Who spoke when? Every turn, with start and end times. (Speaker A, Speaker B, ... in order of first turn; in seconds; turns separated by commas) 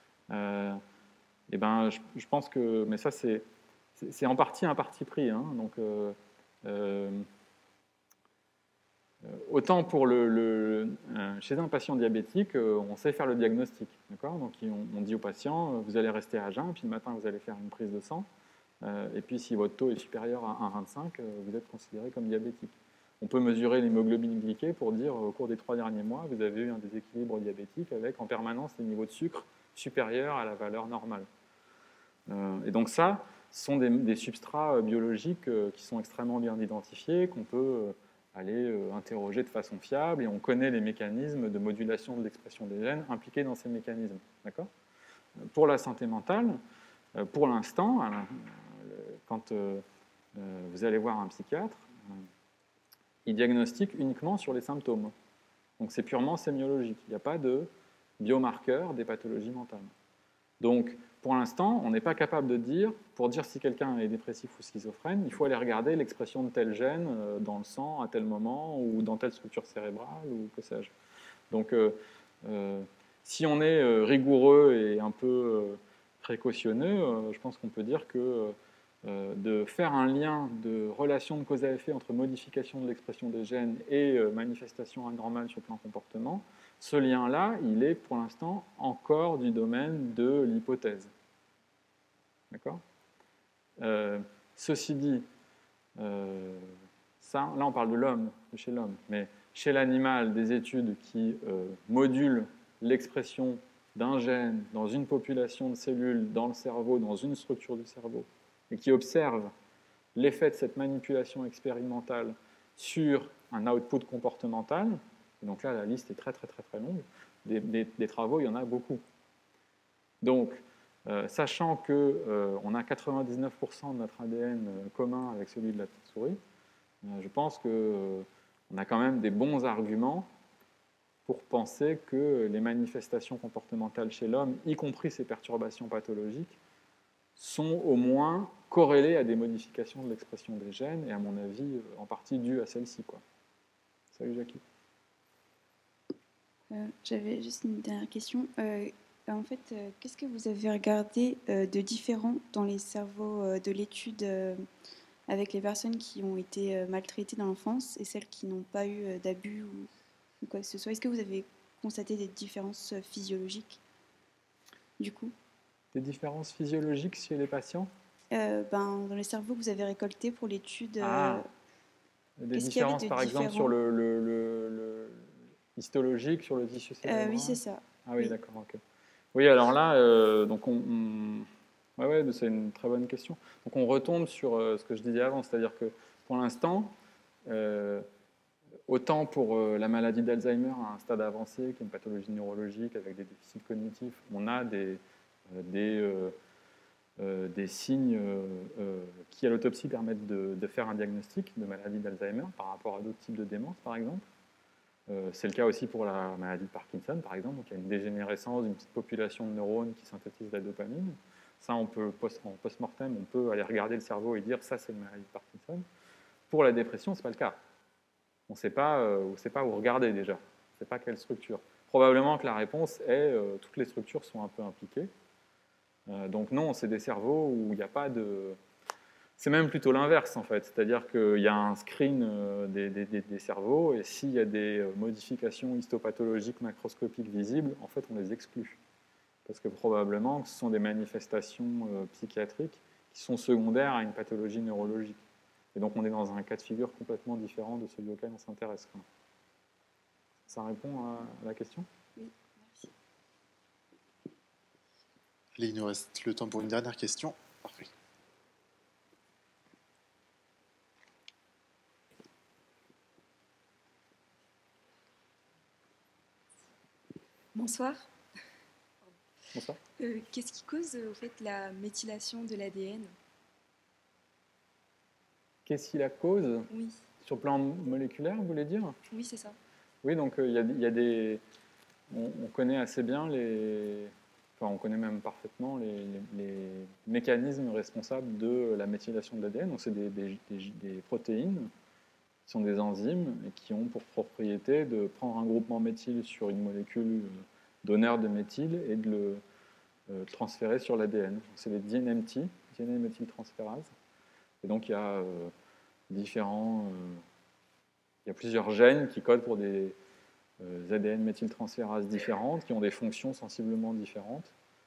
Speaker A: 0.3-0.8, Speaker A: 1.5-3.5, Speaker A: 4.0-7.3, Speaker A: 9.2-18.3, Speaker A: 18.8-31.3, Speaker A: 32.3-44.7, Speaker A: 45.4-46.6, Speaker A: 47.1-49.8, Speaker A: 50.4-52.2, Speaker A: 53.2-55.1, Speaker A: 55.8-59.9, Speaker A: 60.6-70.9, Speaker A: 71.5-91.1, Speaker A: 92.5-92.8, Speaker A: 93.8-95.3, Speaker A: 96.0-109.5, Speaker A: 110.2-119.0, Speaker A: 120.2-126.4, Speaker A: 127.0-130.3, Speaker A: 131.3-136.6, Speaker A: 137.4-143.2, Speaker A: 144.2-144.6, Speaker B: 146.7-154.7, Speaker B: 155.3-159.9, Speaker B: 160.4-163.8, Speaker B: 165.0-165.3, Speaker A: 165.9-167.9, Speaker B: 168.3-171.5, Speaker A: 171.0-171.4, Speaker A: 172.4-178.8, Speaker B: 172.5-173.7, Speaker B: 177.0-178.3, Speaker A: 179.3-186.9, Speaker A: 187.5-188.1, Speaker A: 188.9-196.3, Speaker A: 197.2-204.2, Speaker A: 205.1-215.8, Speaker A: 216.5-217.6, Speaker A: 218.5-225.1, Speaker A: 226.1-228.6, Speaker A: 229.4-238.8, Speaker A: 239.5-245.2, Speaker A: 245.8-249.1, Speaker A: 250.5-251.9, Speaker C: 255.6-257.9, Speaker D: 267.5-268.1, Speaker A: 269.5-269.8, Speaker D: 270.0-273.1, Speaker A: 275.7-276.7, Speaker D: 276.7-277.0, Speaker A: 277.2-279.0, Speaker D: 279.1-279.6, Speaker A: 280.0-281.4, Speaker A: 282.1-291.7, Speaker A: 292.5-299.4, Speaker A: 300.1-303.9, Speaker A: 304.6-305.5, Speaker A: 306.1-307.2, Speaker A: 308.3-310.0, Speaker A: 310.6-314.5